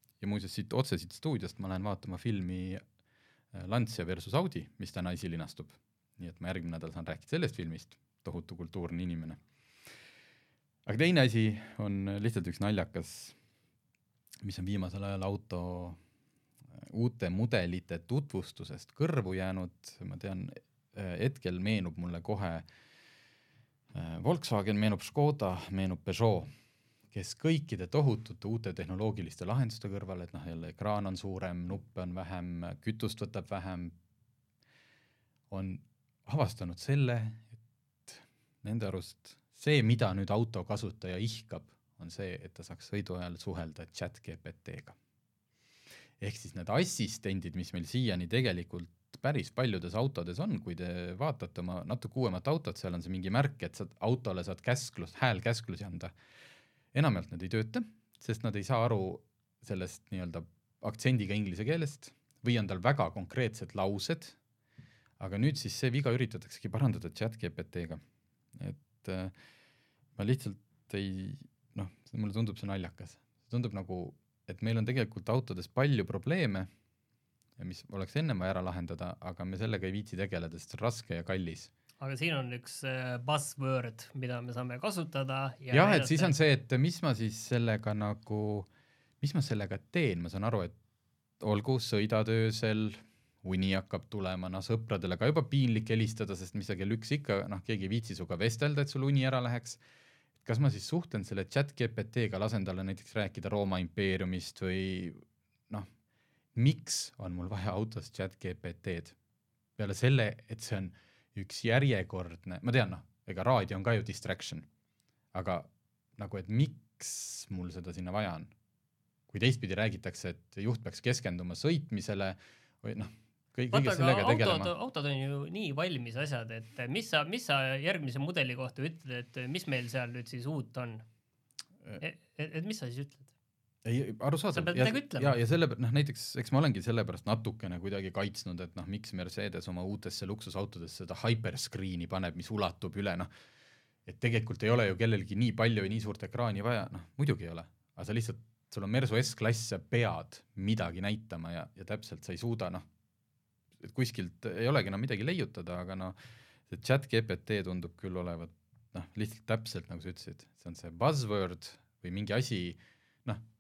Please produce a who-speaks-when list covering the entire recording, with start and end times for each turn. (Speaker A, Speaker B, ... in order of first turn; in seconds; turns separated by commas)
Speaker A: 0.2-2.8, Speaker A: 3.5-9.4, Speaker A: 10.9-13.4, Speaker A: 14.4-16.0, Speaker A: 16.7-22.7, Speaker A: 23.9-26.5, Speaker A: 27.1-34.0, Speaker A: 35.5-37.6, Speaker A: 38.1-45.0, Speaker A: 46.2-56.1, Speaker A: 56.9-64.4, Speaker A: 65.2-68.0, Speaker A: 68.5-69.3, Speaker A: 70.2-76.7, Speaker A: 77.6-81.7, Speaker B: 82.0-86.3, Speaker A: 85.7-88.7, Speaker A: 89.2-90.8, Speaker A: 91.4-99.8, Speaker A: 100.5-105.9, Speaker A: 106.5-109.2, Speaker A: 109.8-114.7, Speaker A: 115.3-118.5, Speaker A: 119.3-124.7, Speaker B: 123.7-131.0, Speaker B: 132.0-133.3, Speaker A: 133.8-143.3, Speaker B: 134.5-135.4, Speaker A: 144.1-152.8, Speaker A: 153.8-156.2, Speaker A: 156.7-163.4